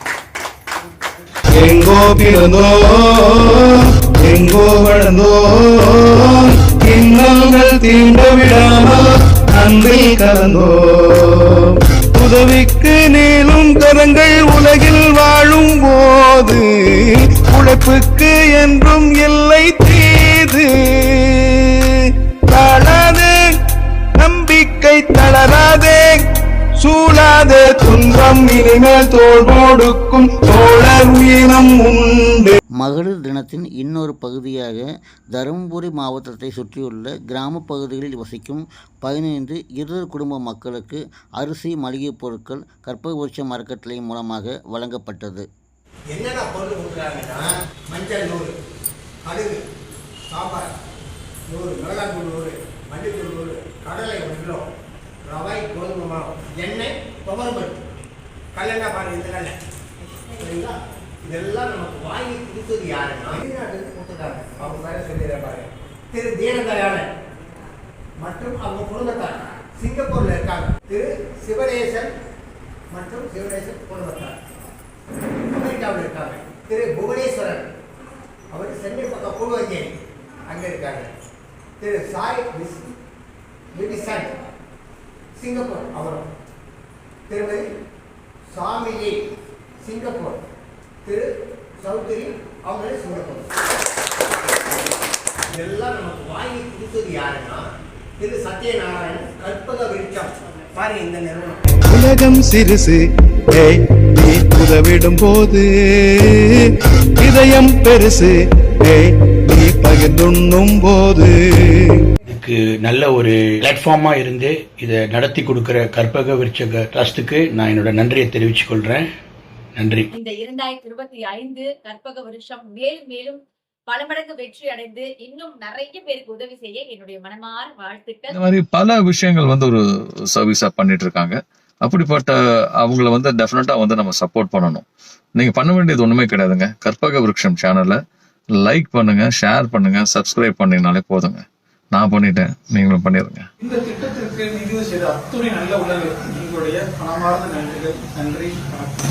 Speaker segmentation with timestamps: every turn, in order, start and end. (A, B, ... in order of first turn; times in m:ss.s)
0:01.6-0:23.5 A
0:24.2-0:26.2 A
0:26.8-0:32.6 A
0:32.8-0:45.5 B
0:46.1-0:48.5 C
0:49.2-0:49.6 C
0:50.3-0:50.7 C
0:51.5-0:54.7 C
0:55.2-0:57.8 C
0:58.5-0:59.6 C
1:00.4-1:07.1 C
1:08.2-1:12.1 C
1:12.9-1:14.4 C
1:15.4-1:17.7 C
1:18.5-1:19.9 C
1:20.5-1:21.1 C
1:21.8-1:22.9 C
1:23.7-1:24.3 C
1:25.4-1:26.3 C
1:27.3-1:27.7 C
1:28.5-1:29.2 C
1:29.8-1:30.4 C
1:31.8-1:33.5 C
1:35.5-1:37.6 C
1:38.2-1:41.6 C
1:41.9-1:43.0 A
1:43.5-1:52.0 A
1:52.3-1:59.1 D
1:59.8-2:00.1 D
2:00.1-2:08.4 E
2:08.3-2:09.8 F
2:10.4-2:18.0 F
2:18.6-2:23.5 F
2:23.6-2:28.7 G